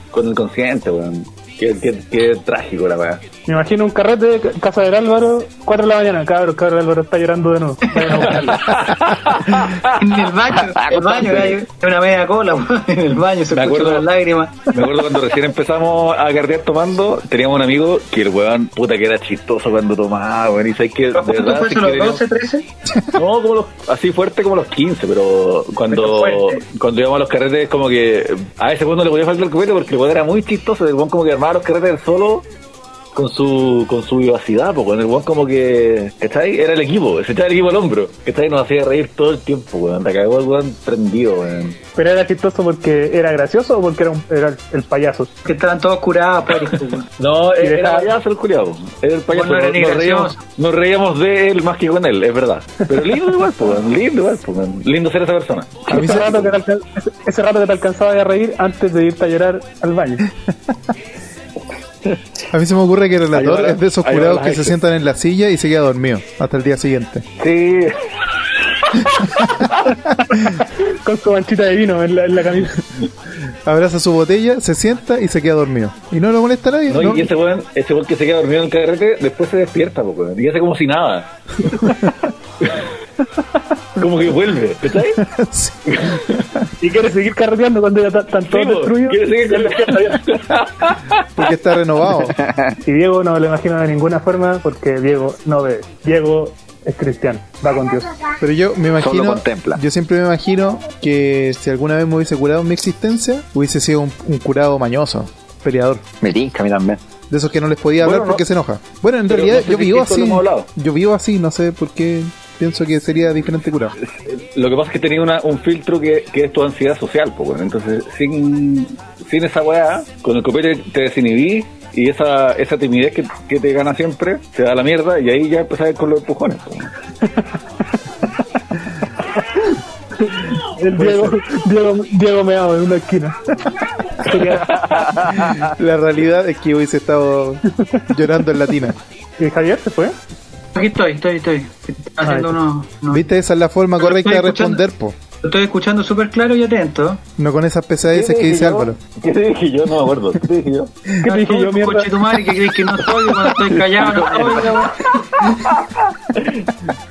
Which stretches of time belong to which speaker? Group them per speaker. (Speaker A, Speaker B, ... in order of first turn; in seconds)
Speaker A: 0.1-3.2, 8.5-9.9, 13.5-14.1, 14.7-22.2, 23.1-32.4, 33.1-41.8, 47.2-56.0, 63.3-64.8, 67.4-68.0, 68.8-69.1, 76.9-82.0, 84.0-85.2, 85.9-86.4, 88.5-91.2, 108.0-108.4, 109.3-110.7, 114.0-126.9, 148.1-150.9, 155.4-155.8, 156.4-156.7
Speaker B: 3.5-8.7, 41.9-45.3, 47.6-48.1, 55.9-60.2, 70.3-72.8, 86.8-90.2, 92.8-98.1, 130.2-133.3, 134.2-135.2, 137.8-138.0, 139.4-140.1, 142.2-142.6, 151.2-152.2
Speaker C: 10.0-14.7, 21.1-22.7, 25.9-26.6, 45.5-47.0, 49.3-50.4, 140.8-143.2, 144.0-144.8, 145.4-147.2, 151.2-155.0
Speaker D: 10.6-11.6, 92.3-92.7, 99.0-99.8, 106.2-107.0, 135.2-135.5, 154.0-154.8
Speaker E: 55.9-56.5, 60.5-60.8, 62.5-67.2, 73.7-77.3, 85.2-86.6, 91.4-92.4, 98.4-106.0, 107.3-114.0, 131.0-131.3, 135.4-139.0, 143.1-145.2, 147.4-149.0